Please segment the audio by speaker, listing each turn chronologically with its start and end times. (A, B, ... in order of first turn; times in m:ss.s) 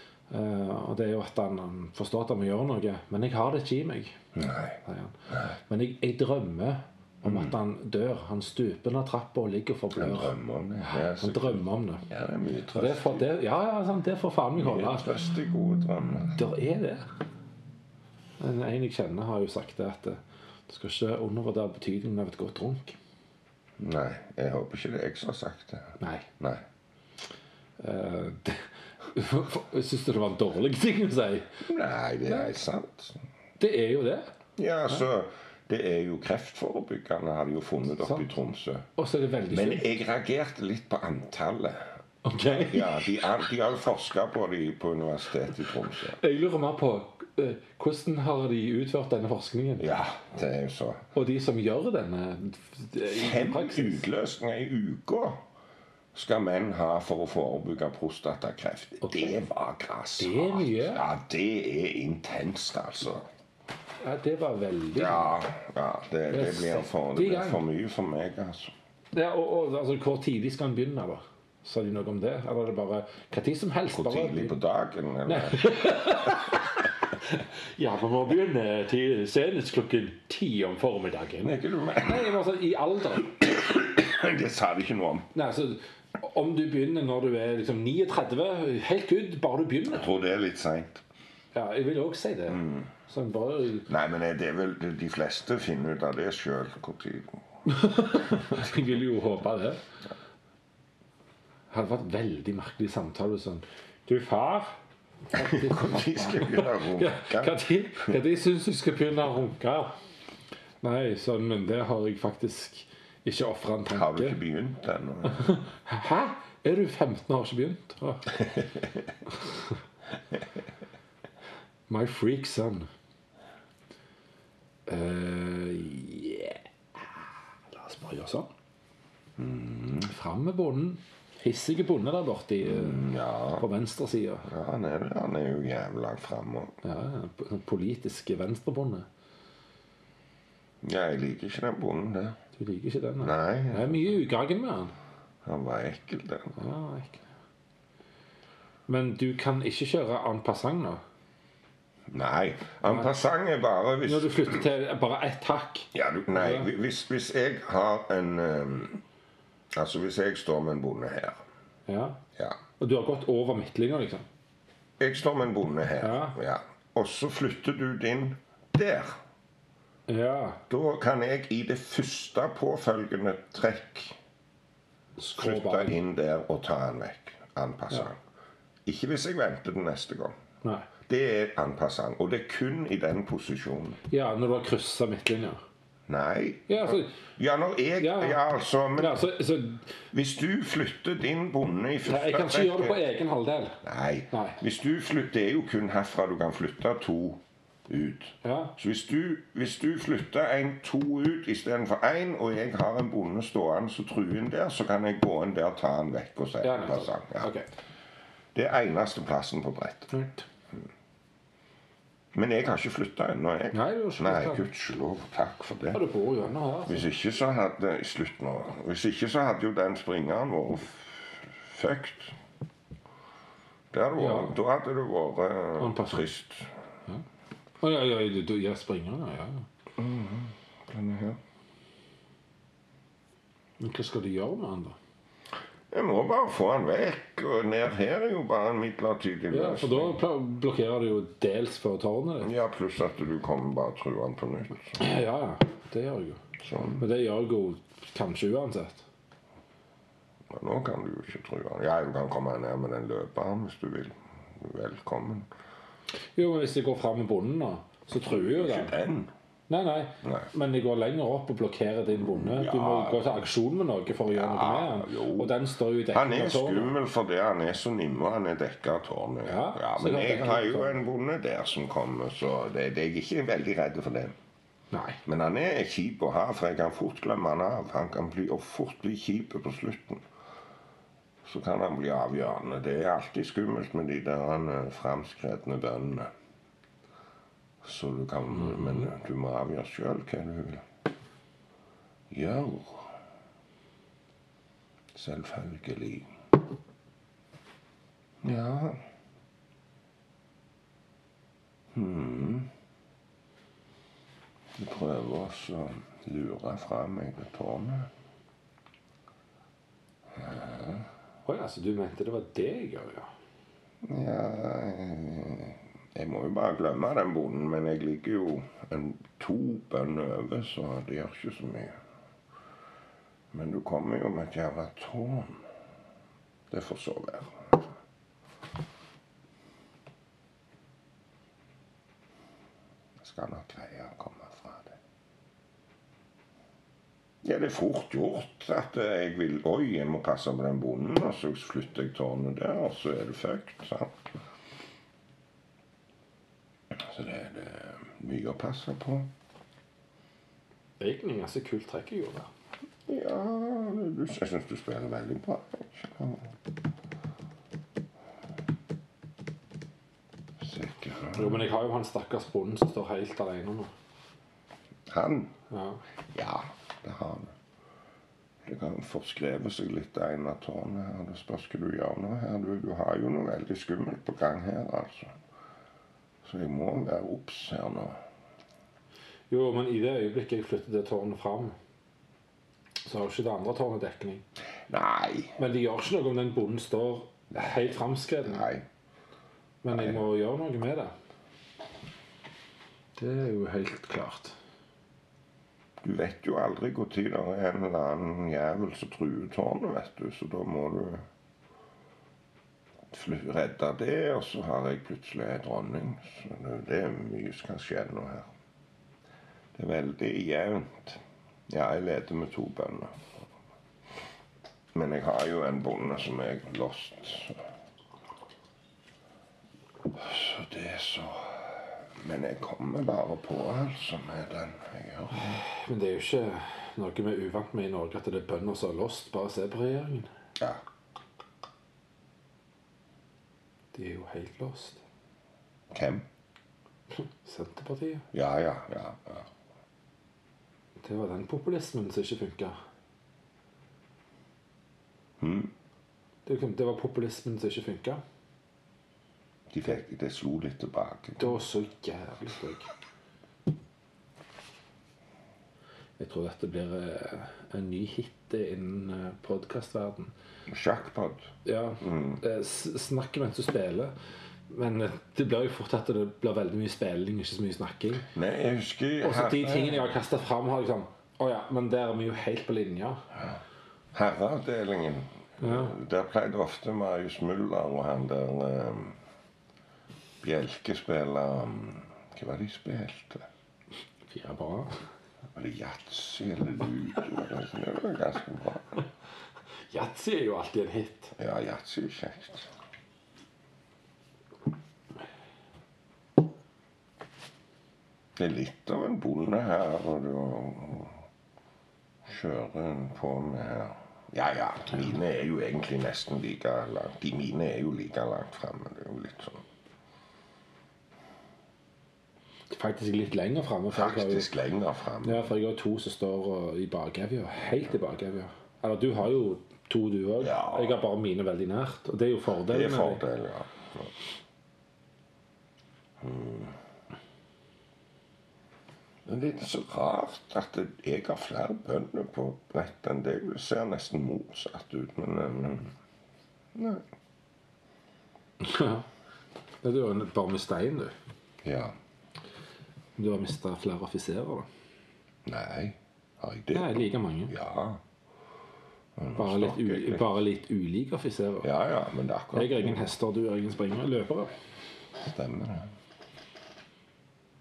0:00.3-0:04.2 A
0:04.3-0:05.6 B
0:04.8-0:05.2 A
0:05.7-0:12.0 A
0:07.2-0:07.5 B
0:10.0-0:13.3 B
0:12.7-0:15.1 A
0:14.6-0:16.4 B
0:16.4-0:17.1 A
0:18.4-0:23.0 A
0:23.8-0:26.6 B
0:26.0-0:26.3 A
0:27.8-0:31.5 A
0:31.6-0:33.2 B
0:32.3-0:32.5 A
0:33.6-0:34.3 A
0:34.6-0:38.9 B
0:38.0-0:38.3 A
0:39.0-0:39.9 A
0:39.5-0:41.9 B
0:42.2-0:43.3 A
0:42.5-0:46.2 B
0:46.2-0:49.9 A
0:49.8-0:51.0 B
0:51.1-0:54.0 A
0:53.0-0:55.4 B
0:56.1-1:03.2 B
0:59.0-0:59.4 A
1:00.2-1:01.0 A
1:04.0-1:05.3 A
1:05.0-1:08.7 B
1:06.3-1:07.6 A
1:09.1-1:14.5 A
1:13.9-1:16.5 B
1:15.2-1:23.4 A
1:21.4-1:22.3 B
1:23.2-1:25.3 B
1:25.3-1:30.1 A
1:29.9-1:31.0 B
1:31.5-1:33.9 A
1:32.5-1:32.9 B
1:33.9-1:37.3 B
1:37.6-1:39.8 A
1:41.7-1:44.7 A
1:45.3-1:49.9 A
1:45.3-1:48.1 B
1:50.8-1:54.4 A
1:53.9-1:55.6 B
1:55.3-1:58.4 A
1:58.3-1:59.1 B
2:01.9-2:02.9 A
2:04.9-2:08.5 A
2:09.4-2:10.1 B
2:10.0-2:14.5 A
2:12.6-2:13.6 B
2:14.4-2:16.8 B
2:16.8-2:19.1 A
2:20.8-2:22.4 B
2:22.6-2:24.9 A
2:23.2-2:24.2 B
2:25.4-2:26.5 B
2:26.6-2:27.2 A
2:28.9-2:31.0 A
2:32.1-2:34.7 B
2:32.9-2:33.1 A
2:34.0-2:36.7 A
2:35.9-2:39.0 B
2:39.7-2:41.4 B
2:41.9-2:42.2 A
2:42.8-2:44.2 A
2:45.0-2:49.2 B
2:46.0-2:46.4 A
2:50.1-2:50.6 A
2:50.7-2:54.2 B
2:55.2-2:56.0 A
2:55.3-2:58.2 B
2:58.8-3:00.3 B
3:01.0-3:04.0 B
3:04.1-3:05.6 A
3:06.1-3:09.2 B
3:06.7-3:07.1 A
3:08.0-3:08.4 A
3:09.0-3:09.9 A
3:10.1-3:13.0 B
3:12.0-3:13.8 A
3:13.8-3:27.5 B
3:14.3-3:14.6 A
3:18.4-3:18.7 A
3:26.6-3:27.7 A
3:28.5-3:30.1 B
3:30.1-3:30.4 A
3:32.3-3:36.0 B
3:33.7-3:34.6 A
3:35.9-3:37.0 A
3:36.8-3:42.4 B
3:43.9-3:46.7 B
3:44.1-3:44.5 A
3:45.8-3:46.2 A
3:47.8-3:49.6 A
3:50.0-3:51.4 B
3:53.8-3:55.0 A
3:55.9-4:00.2 B
3:59.5-4:02.5 A
4:02.4-4:05.0 B
4:05.0-4:06.4 A
4:06.6-4:07.0 B
4:07.0-4:09.0 A
4:10.5-4:15.5 B
4:16.4-4:18.9 A
4:18.2-4:19.3 B
4:19.7-4:26.9 A
4:20.2-4:20.5 B
4:22.1-4:23.4 B
4:24.3-4:25.5 B
4:26.1-4:34.4 B
4:29.5-4:31.0 A
4:34.9-4:35.2 A
4:35.2-4:40.2 B
4:41.4-4:46.3 B
4:47.8-4:50.8 B
4:52.3-4:53.1 B
4:55.1-4:56.3 B
4:58.4-4:59.0 B
5:01.9-5:02.7 B
5:04.8-5:08.1 B
5:10.3-5:11.1 B
5:11.4-5:13.3 A
5:14.0-5:21.9 B
5:23.5-5:25.7 B
5:26.7-5:27.9 B
5:33.2-5:35.0 B
5:37.4-5:44.2 B
5:46.9-5:49.3 B
5:51.0-5:52.5 A
5:53.1-5:56.5 B
6:00.6-6:01.6 B
6:01.3-6:03.9 A
6:05.1-6:05.5 B
6:05.7-6:06.0 A
6:06.3-6:07.5 B
6:08.6-6:15.3 B
6:16.4-6:18.2 B
6:19.5-6:21.8 A
6:23.0-6:24.4 A
6:24.9-6:25.6 B
6:25.6-6:28.6 A
6:28.4-6:28.8 B
6:29.8-6:31.1 A
6:29.9-6:30.2 B
6:33.2-6:34.6 A
6:36.0-6:41.2 B
6:43.1-6:48.5 B
6:49.7-6:53.4 B
6:54.9-6:57.6 B
7:00.1-7:05.6 B
7:05.3-7:10.3 A
7:13.9-7:15.0 A
7:15.9-7:16.2 B
7:17.2-7:18.2 A
7:18.3-7:19.5 B
7:21.0-7:22.8 A
7:25.4-7:25.7 B
7:26.4-7:28.2 A
7:29.7-7:31.6 B
7:31.4-7:32.9 A
7:36.2-7:40.3 A
7:40.7-7:41.5 B
7:41.6-7:44.1 A
7:42.0-7:42.4 B
7:44.7-7:48.3 A
7:48.2-7:50.1 B
7:49.2-7:53.2 A
7:54.1-7:59.2 B
7:55.6-7:55.9 A
8:00.4-8:03.5 B
8:04.3-8:04.9 A
8:05.5-8:09.0 B
8:09.9-8:11.3 A
8:11.4-8:12.7 B
8:18.4-8:21.2 B
8:22.2-8:29.6 B
8:32.7-8:34.5 A
8:33.9-8:35.5 B
8:35.2-8:43.2 A
8:40.4-8:41.0 B
8:42.7-8:44.1 B
8:46.2-8:46.8 B
8:49.2-8:55.9 B
8:56.7-8:57.0 B
8:58.6-8:59.1 A
8:59.8-9:01.1 A
9:01.6-9:01.9 B
9:03.2-9:04.7 A
9:05.4-9:08.0 B
9:06.7-9:07.5 A
9:09.2-9:10.3 B
9:09.4-9:11.7 A
9:11.6-9:13.0 B
9:12.5-9:14.5 A
9:15.2-9:15.9 B